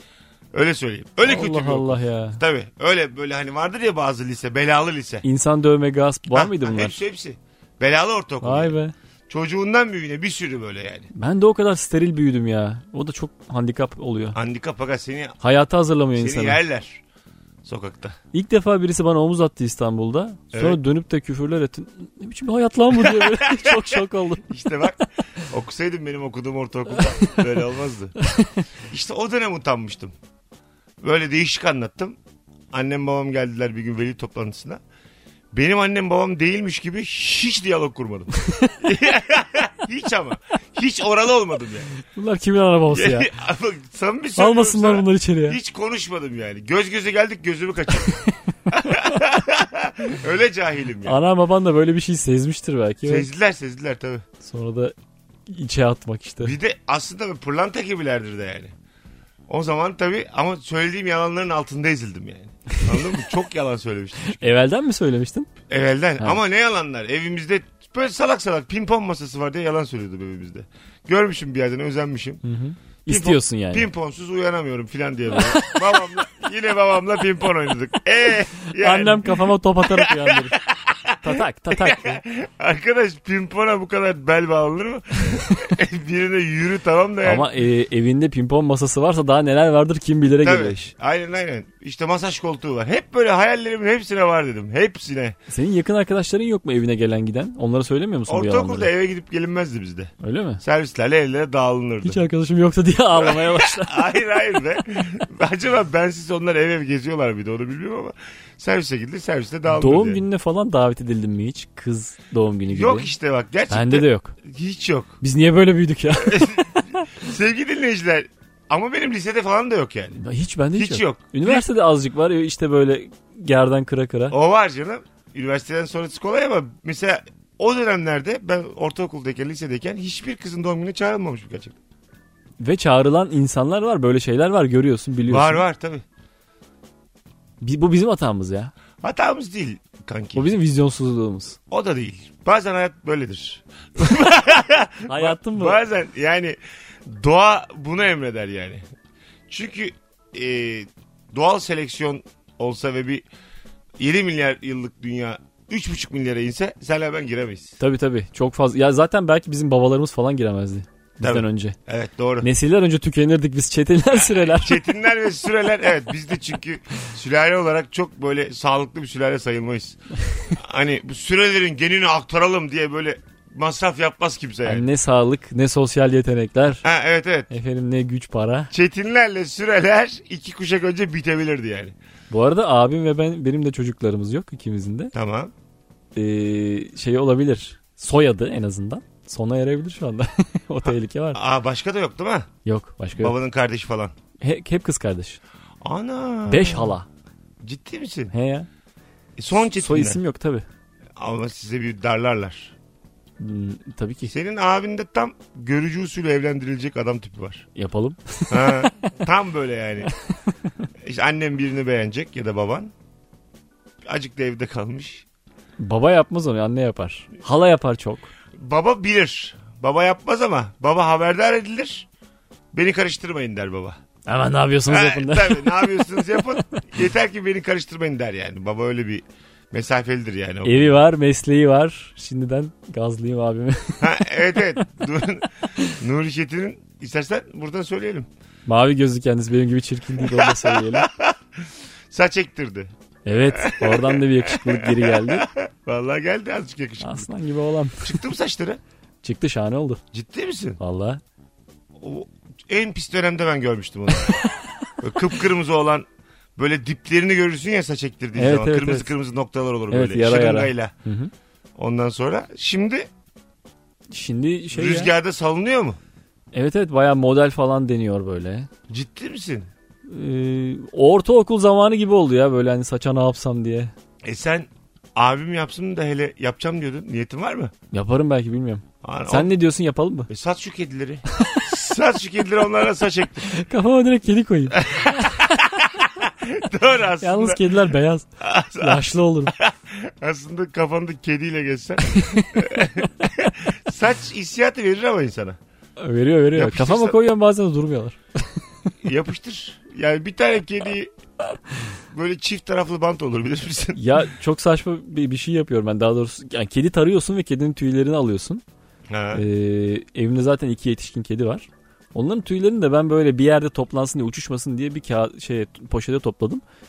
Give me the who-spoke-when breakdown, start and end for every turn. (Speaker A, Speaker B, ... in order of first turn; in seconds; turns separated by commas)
Speaker A: 0.5-5.2, Speaker B: 1.2-2.4, Speaker B: 5.2-7.0, Speaker A: 6.3-8.8, Speaker B: 8.4-8.9, Speaker A: 9.3-11.1, Speaker B: 11.1-14.4, Speaker A: 14.3-15.4, Speaker B: 15.4-16.6, Speaker A: 16.2-17.0, Speaker A: 17.6-18.2, Speaker B: 18.3-24.5, Speaker A: 20.5-20.8, Speaker A: 22.9-28.2, Speaker B: 28.2-28.6, Speaker A: 28.9-30.1, Speaker A: 31.0-32.2, Speaker A: 32.7-34.8, Speaker A: 35.5-41.9, Speaker B: 42.1-43.3, Speaker A: 42.9-51.2, Speaker B: 44.4-45.6, Speaker B: 51.0-53.3, Speaker A: 53.0-54.2, Speaker B: 54.4-54.9, Speaker B: 55.5-56.6, Speaker A: 56.4-58.8, Speaker A: 59.5-64.4, Speaker B: 64.3-65.5, Speaker A: 65.7-72.4, Speaker B: 72.4-73.9, Speaker A: 73.1-87.5, Speaker B: 75.5-75.8, Speaker B: 78.8-80.6, Speaker B: 81.2-82.2, Speaker B: 87.2-90.9, Speaker A: 90.4-95.4, Speaker B: 95.5-98.9, Speaker A: 98.3-102.3, Speaker B: 100.2-100.6, Speaker B: 102.0-104.0, Speaker A: 103.2-110.2, Speaker B: 109.7-113.1, Speaker A: 112.7-115.2, Speaker B: 113.7-114.4, Speaker B: 115.2-117.1, Speaker A: 116.2-120.2, Speaker B: 120.2-124.3, Speaker A: 120.8-121.7, Speaker A: 124.3-131.8, Speaker B: 132.6-135.6, Speaker A: 135.3-136.1, Speaker B: 137.6-138.7, Speaker A: 139.0-140.6, Speaker B: 140.3-141.6, Speaker A: 141.7-148.8, Speaker B: 145.1-145.8, Speaker A: 149.5-153.3, Speaker A: 154.0-157.8, Speaker B: 157.8-161.8, Speaker A: 161.2-162.5, Speaker B: 162.4-164.8, Speaker A: 164.5-174.9, Speaker B: 174.7-176.8, Speaker A: 176.8-177.5, Speaker B: 177.5-178.7, Speaker A: 178.7-181.9, Speaker B: 182.3-185.1, Speaker A: 185.1-185.5, Speaker B: 186.2-191.4, Speaker A: 191.3-192.5, Speaker B: 192.7-193.4, Speaker A: 193.2-194.1, Speaker B: 194.4-195.4, Speaker A: 195.8-197.0, Speaker B: 196.5-197.1, Speaker A: 197.6-198.3, Speaker B: 198.3-198.7, Speaker A: 199.4-200.2, Speaker B: 199.7-200.7, Speaker A: 201.2-202.7, Speaker B: 203.4-204.3, Speaker A: 204.3-207.7, Speaker B: 207.8-209.1, Speaker A: 208.5-210.1, Speaker A: 211.0-212.9, Speaker A: 214.1-215.2, Speaker B: 215.8-218.3, Speaker A: 218.6-222.1, Speaker A: 222.7-224.0, Speaker B: 224.3-226.7, Speaker A: 224.9-231.0, Speaker B: 230.6-234.8, Speaker A: 234.0-238.3, Speaker B: 238.7-241.1, Speaker A: 240.2-242.9, Speaker B: 243.2-245.5, Speaker A: 243.5-247.3, Speaker B: 247.0-248.2, Speaker A: 248.0-248.8, Speaker B: 249.2-250.0, Speaker A: 250.1-250.8, Speaker B: 250.8-251.2, Speaker A: 252.0-254.5, Speaker A: 255.0-260.9, Speaker B: 258.4-259.1, Speaker B: 259.9-261.3, Speaker A: 261.8-263.1, Speaker B: 264.1-265.1, Speaker A: 264.7-266.0, Speaker B: 266.5-268.7, Speaker A: 268.9-269.7, Speaker B: 270.1-273.9, Speaker A: 274.2-277.7, Speaker B: 277.9-280.3, Speaker A: 279.0-279.5, Speaker A: 280.3-283.5, Speaker B: 283.5-285.4, Speaker A: 284.8-287.7, Speaker B: 287.2-289.6, Speaker A: 288.4-295.6, Speaker B: 292.2-292.8, Speaker B: 296.0-298.2, Speaker A: 296.6-297.2, Speaker A: 299.0-301.1, Speaker A: 302.1-304.0, Speaker B: 303.9-308.6, Speaker A: 309.1-309.4, Speaker B: 309.3-316.6